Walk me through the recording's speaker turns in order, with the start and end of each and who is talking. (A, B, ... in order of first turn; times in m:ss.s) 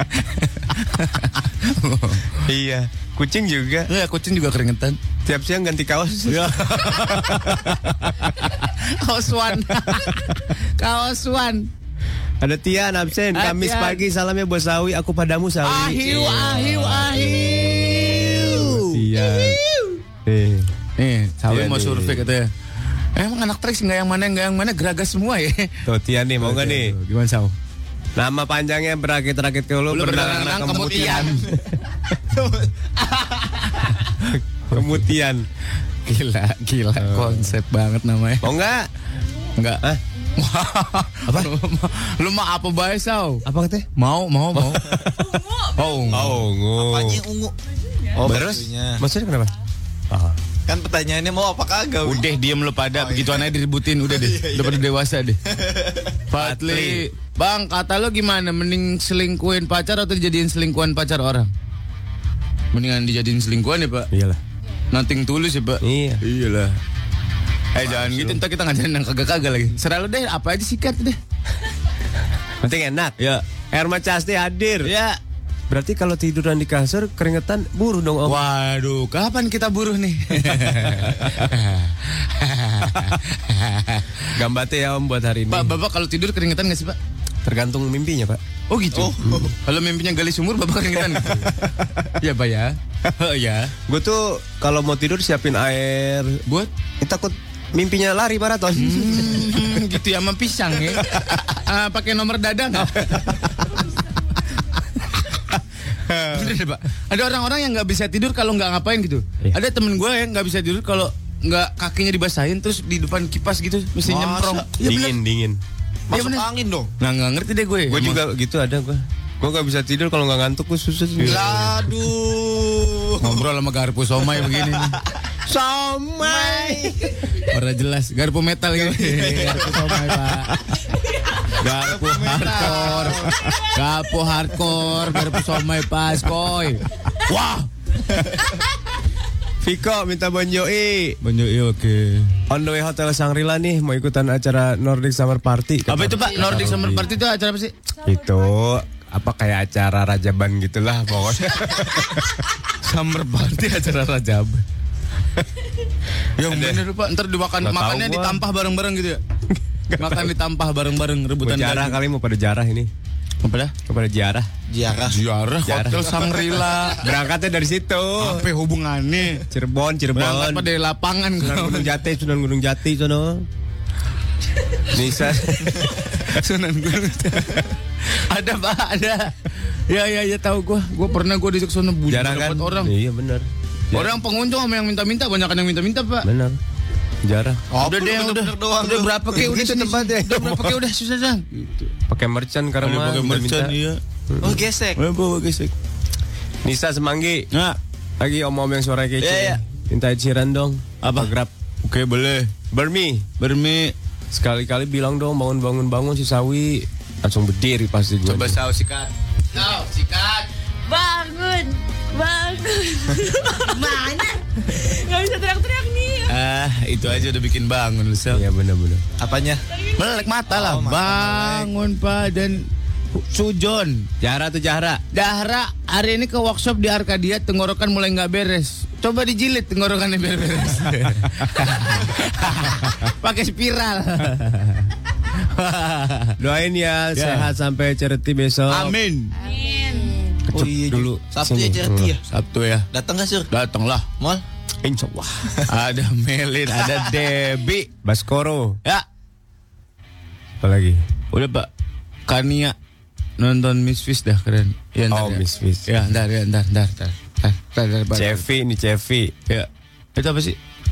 0:00.2-0:02.4 A
0:02.4-0:03.9 B
0:03.9-0:05.0 A
0:05.2-0:07.8 B
0:06.3-0:11.7 A
0:12.4-0:19.6 B
0:13.3-0:14.0 A
0:15.6-0:20.0 A
0:20.2-0:20.7 B
0:21.0-0:22.5 A
0:21.5-0:22.3 B
0:23.2-0:25.7 A
0:25.8-0:26.9 B
0:26.4-0:27.5 A
0:28.2-0:31.6 B
0:29.9-0:31.5 A
0:30.7-0:31.6 C
0:32.3-0:32.7 C
0:34.7-0:35.4 B
0:36.0-0:38.5 A
0:37.0-0:37.5 B
0:38.4-0:38.9 B
0:40.4-0:43.4 A
0:43.4-0:43.8 B
0:44.0-0:45.0 A
0:44.5-0:45.0 B
0:45.2-0:46.1 D
0:45.7-0:46.4 A
0:46.1-0:47.2 B
0:46.3-0:47.5 C
0:48.1-0:49.0 C
0:48.2-0:49.5 B
0:50.1-0:50.4 B
0:50.7-0:52.3 C
0:52.0-0:55.4 A
0:52.9-0:54.8 C
0:55.5-0:56.0 C
0:56.3-1:01.5 A
0:56.3-0:57.0 B
1:02.7-1:04.1 A
1:04.1-1:04.4 B
1:04.9-1:06.8 A
1:05.8-1:06.2 B
1:07.7-1:11.2 A
1:07.8-1:08.4 B
1:12.6-1:14.9 B
1:14.8-1:15.2 A
1:15.7-1:18.4 B
1:18.2-1:24.1 A
1:24.4-1:25.8 B
1:25.5-1:27.0 A
1:27.4-1:28.4 B
1:28.7-1:31.6 A
1:28.9-1:29.5 C
1:32.2-1:33.7 A
1:33.8-1:36.4 B
1:37.0-1:39.8 B
1:38.7-1:43.5 A
1:46.1-1:46.5 B
1:46.3-1:55.1 A
1:54.0-1:55.0 C
1:54.8-1:55.6 B
1:56.1-1:56.9 C
1:56.1-1:56.4 A
1:57.0-1:58.2 A
1:57.9-2:01.8 B
2:01.2-2:01.6 A
2:01.2-2:03.5 C
2:03.2-2:05.0 A
2:05.4-2:07.1 B
2:06.2-2:06.9 C
2:07.5-2:10.6 A
2:08.8-2:10.0 C
2:11.5-2:17.7 A
2:11.6-2:13.6 C
2:12.4-2:13.1 B
2:19.6-2:21.2 B
2:21.2-2:22.4 A
2:22.5-2:27.1 B
2:25.9-2:27.7 A
2:28.0-2:28.4 D
2:28.0-2:32.4 B
2:32.8-2:34.6 A
2:36.4-2:39.2 A
2:36.4-2:36.8 B
2:37.6-2:38.4 B
2:39.9-2:40.3 B
2:40.0-2:42.0 A
2:41.4-2:42.9 B
2:43.4-2:43.7 A
2:43.9-2:44.5 B
2:44.7-2:45.2 C
2:45.0-2:47.0 A
2:45.6-2:46.1 B
2:47.0-2:48.5 B
2:48.2-2:49.4 A
2:49.5-2:50.7 B
2:50.1-2:52.0 A
2:51.4-2:53.4 B
2:54.9-2:55.8 B
2:55.0-2:59.3 A
2:59.9-3:02.9 A
3:02.1-3:04.1 B
3:03.9-3:06.3 A
3:06.2-3:06.6 B
3:07.2-3:07.6 B
3:07.7-3:09.5 C
3:07.8-3:11.9 A
3:09.4-3:10.8 B
3:12.1-3:13.7 B
3:12.8-3:14.0 A
3:14.3-3:14.6 B
3:14.4-3:15.0 C
3:15.0-3:15.7 A
3:16.6-3:17.5 B
3:17.5-3:17.8 A
3:18.2-3:21.5 B
3:19.2-3:19.6 A
3:21.0-3:22.5 A
3:22.7-3:23.3 B
3:23.4-3:23.9 A
3:24.3-3:28.6 B
3:28.2-3:30.5 A
3:30.9-3:36.3 D
3:36.3-3:38.4 A
3:37.0-3:37.3 B
3:38.3-3:39.0 B
3:39.2-3:39.6 C
3:39.7-3:40.2 D
3:40.0-3:44.1 A
3:40.5-3:41.7 C
3:44.2-3:45.0 B
3:45.1-3:54.9 A
3:55.4-3:56.4 A
3:56.4-3:58.9 B
3:57.2-3:57.5 A
3:58.7-3:59.3 A
3:59.4-4:00.4 D
4:00.5-4:02.1 B
4:00.5-4:02.2 C
4:02.3-4:02.9 A
4:02.9-4:03.5 C
4:03.5-4:04.1 A
4:04.8-4:05.5 B
4:05.7-4:07.9 A
4:08.0-4:08.8 B
4:10.6-4:11.0 B
4:11.3-4:11.7 A
4:12.3-4:12.7 A
4:13.4-4:18.4 A
4:15.1-4:15.9 B
4:18.1-4:19.3 B
4:19.5-4:20.6 A